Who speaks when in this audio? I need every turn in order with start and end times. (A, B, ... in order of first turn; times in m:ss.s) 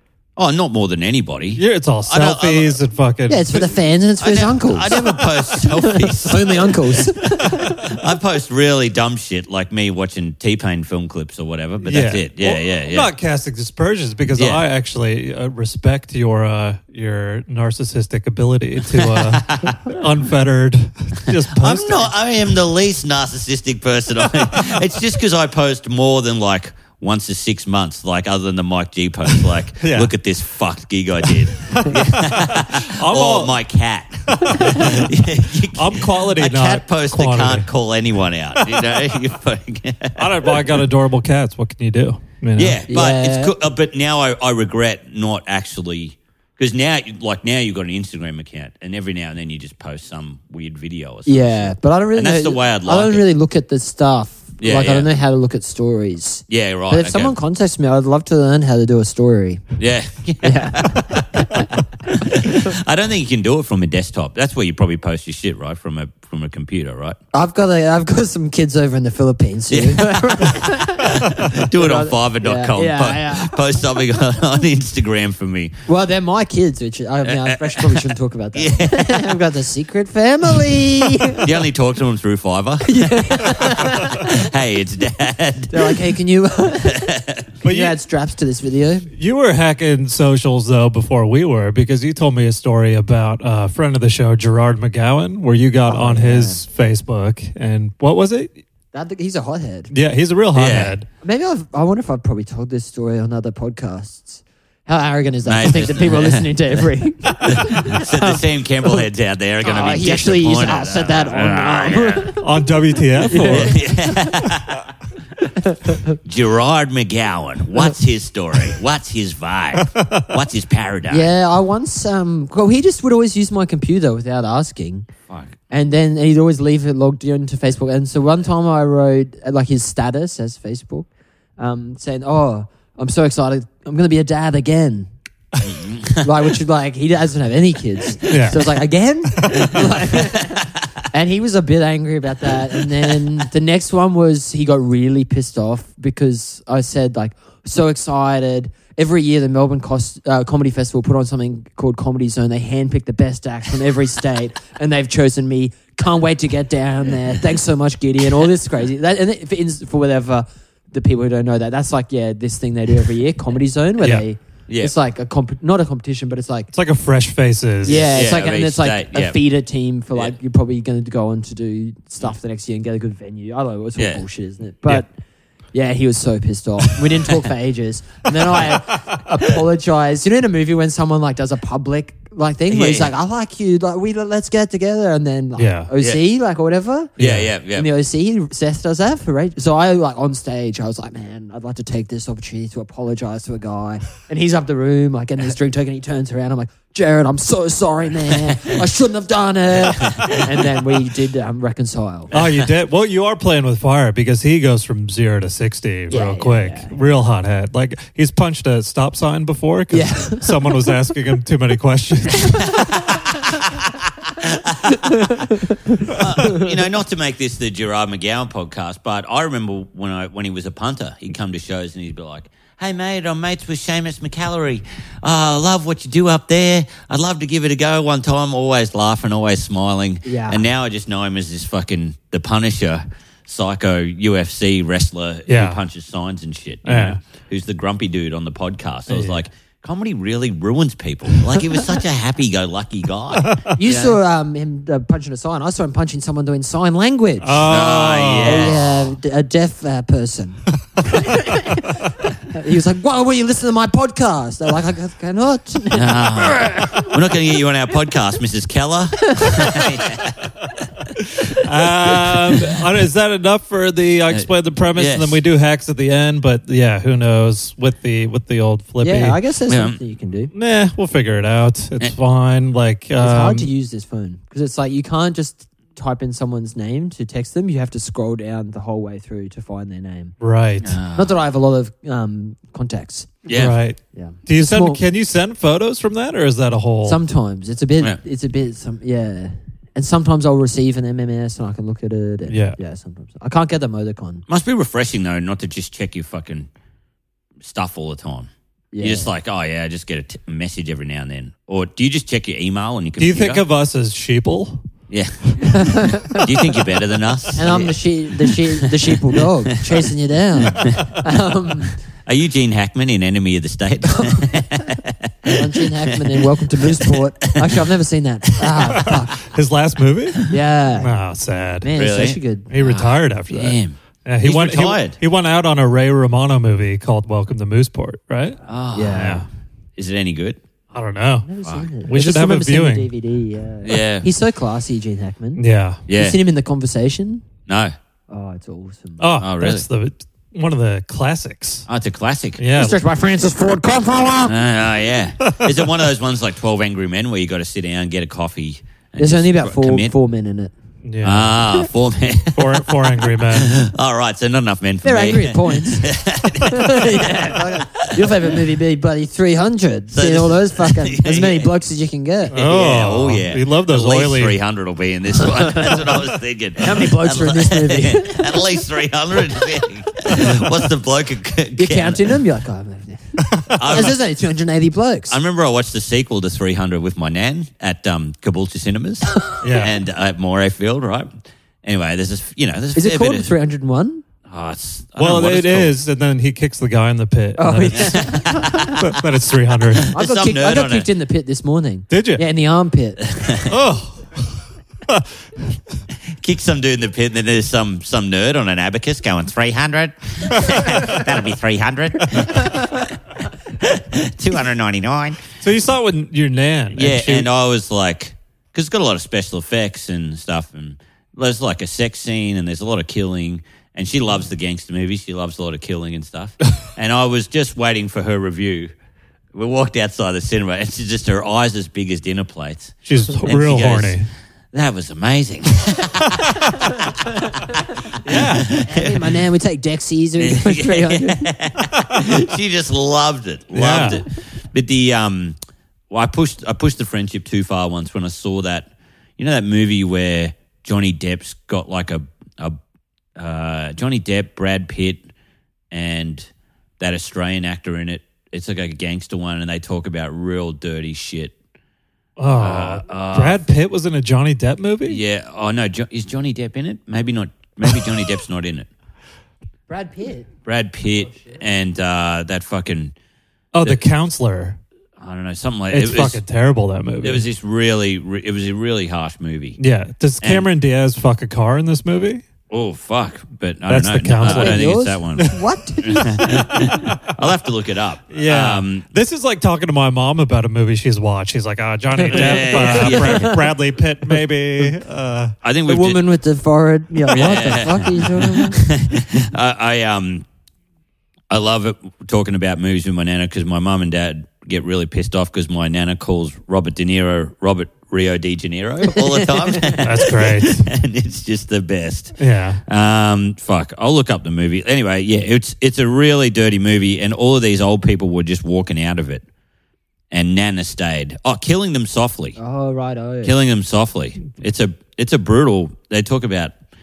0:00.4-0:02.8 A
0:01.6-0:03.7 B
0:03.3-0:07.7 C
0:04.2-0:13.1 A
0:11.8-0:22.1 B
0:14.4-0:14.6 A
0:18.9-0:20.0 A
0:21.3-0:40.8 A
0:29.8-0:30.1 B
0:31.3-0:33.6 B
0:34.3-0:37.7 B
0:38.6-0:39.0 B
0:40.2-0:42.8 B
0:42.6-0:53.2 A
0:42.9-0:43.5 C
0:51.3-0:59.6 C
0:54.6-0:55.1 A
0:56.5-0:57.4 A
0:59.8-1:07.2 A
1:00.4-1:01.7 C
1:07.3-1:13.6 C
1:09.7-1:15.7 A
1:15.9-1:21.5 C
1:17.2-1:19.3 A
1:21.4-1:26.0 A
1:22.9-1:24.4 C
1:25.7-1:27.0 C
1:26.8-1:27.5 A
1:27.6-1:29.1 C
1:27.6-1:28.0 B
1:29.2-1:38.5 B
1:35.9-1:36.6 C
1:38.9-1:39.9 C
1:39.9-1:41.1 B
1:40.5-1:41.0 A
1:41.2-1:49.0 C
1:45.4-1:46.8 A
1:47.5-1:52.3 A
1:49.6-1:52.4 C
1:52.4-1:53.8 B
1:53.2-1:54.2 C
1:53.4-1:54.9 A
1:55.6-1:56.2 C
1:56.2-2:01.3 A
1:59.8-2:00.3 B
2:01.1-2:05.1 C
2:05.3-2:05.6 A
2:05.7-2:15.1 C
2:15.6-2:16.3 A
2:16.2-2:46.7 C
2:18.3-2:18.6 B
2:19.4-2:19.7 B
2:19.8-2:20.7 A
2:44.7-2:44.9 A
2:46.7-2:48.1 B
2:47.8-2:55.1 C
2:47.8-2:49.4 A
2:54.0-2:54.2 A
2:55.7-3:07.2 C
2:58.5-2:58.8 A
3:02.7-3:03.1 A
3:05.6-3:05.9 B
3:07.2-3:07.5 B
3:07.2-3:07.9 A
3:07.7-3:22.3 C
3:19.9-3:20.7 A
3:22.3-3:22.7 A
3:22.3-3:32.9 B
3:26.1-3:26.9 C
3:29.9-3:30.9 C
3:33.5-3:35.1 A
3:35.0-3:35.9 C
3:36.1-4:04.2 A
3:36.4-3:36.7 C
3:50.2-3:50.6 C
3:55.5-3:55.8 B
3:56.8-3:57.2 B
3:59.1-3:59.4 B
4:03.4-4:03.8 B
4:03.8-4:07.7 C
4:07.4-4:08.8 B
4:07.7-4:09.1 A
4:08.4-4:11.9 C
4:12.5-4:17.0 C
4:15.9-4:20.5 A
4:21.0-4:22.8 A
4:21.3-4:29.4 B
4:24.3-4:25.4 A
4:29.0-4:30.5 C
4:29.7-4:30.0 A
4:30.5-4:33.7 B
4:33.2-4:40.4 C
4:40.4-4:41.0 B
4:40.8-4:41.3 A
4:41.2-4:43.4 C
4:43.5-4:43.8 A
4:43.5-4:47.2 B
4:44.1-4:45.0 C
4:47.0-4:54.4 C
4:52.5-4:52.8 B
4:54.5-4:56.7 A
4:57.6-5:03.6 A
4:58.9-4:59.3 C
5:03.2-5:04.9 B
5:05.1-5:10.0 A
5:05.7-5:06.5 C
5:07.6-5:12.0 C
5:10.7-5:11.1 A
5:12.2-5:17.9 A
5:14.2-5:14.7 C
5:15.5-5:19.4 C
5:18.6-5:19.1 A
5:19.0-5:21.9 B
5:20.5-5:21.1 C
5:21.8-5:22.7 C
5:22.0-5:25.2 A
5:22.7-5:28.6 B
5:28.7-5:29.4 A
5:28.9-5:29.4 C
5:29.1-5:29.4 B
5:30.0-5:30.6 A
5:30.9-5:31.5 B
5:31.4-5:37.4 C
5:32.0-5:33.1 B
5:33.8-5:34.3 A
5:35.6-5:36.0 B
5:36.1-5:36.4 A
5:37.7-5:38.0 A
5:38.3-5:39.3 C
5:39.2-5:41.9 B
5:39.4-5:39.9 A
5:41.9-5:42.6 A
5:42.6-5:43.0 B
5:42.8-5:44.5 C
5:44.4-5:50.1 A
5:45.4-5:45.7 B
5:49.2-5:50.7 C
5:51.0-5:51.7 B
5:51.2-5:58.6 A
5:52.5-5:53.8 B
5:55.0-6:02.6 C
6:00.1-6:01.7 A
6:02.5-6:04.6 B
6:02.5-6:12.4 A
6:05.4-6:06.1 C
6:06.8-6:08.6 C
6:11.8-6:15.4 C
6:13.7-6:14.2 A
6:15.3-6:21.3 A
6:19.6-6:20.0 B
6:21.8-6:23.5 A
6:23.0-6:24.2 C
6:24.5-6:25.9 A
6:25.2-6:30.1 B
6:27.6-6:29.0 C
6:27.9-6:29.1 A
6:30.1-6:31.1 A
6:30.1-6:33.2 C
6:32.1-6:32.4 B
6:33.3-6:33.8 A
6:33.7-6:35.3 B
6:36.3-6:45.4 A
6:45.6-6:47.5 B
6:46.9-6:58.9 A
6:59.5-7:04.2 A
7:03.1-7:04.3 B
7:04.7-7:09.4 A
7:08.2-7:08.7 B
7:08.8-7:11.5 C
7:10.4-7:15.6 A
7:13.7-7:14.2 B
7:16.1-7:22.8 A
7:23.4-7:25.3 A
7:25.9-7:31.5 A
7:32.4-7:35.2 B
7:32.5-7:33.6 A
7:35.0-7:38.9 A
7:39.9-7:40.5 C
7:40.6-7:43.1 A
7:43.7-7:44.8 B
7:45.2-7:46.4 A
7:45.9-7:47.4 B
7:47.2-7:49.8 A
7:49.8-7:52.4 B
7:50.4-7:50.7 A
7:52.7-7:59.0 A
7:53.9-7:55.6 B
7:54.4-7:57.0 C
7:56.8-7:57.2 B
7:58.3-8:05.6 B
8:02.2-8:03.6 C
8:02.3-8:03.6 A
8:05.6-8:06.2 A
8:05.8-8:08.8 C
8:07.3-8:10.5 A
8:11.5-8:29.4 A
8:19.1-8:20.0 C
8:20.0-8:20.9 B
8:22.4-8:22.8 B
8:30.3-8:32.6 A
8:32.6-8:33.6 C
8:33.4-8:36.8 A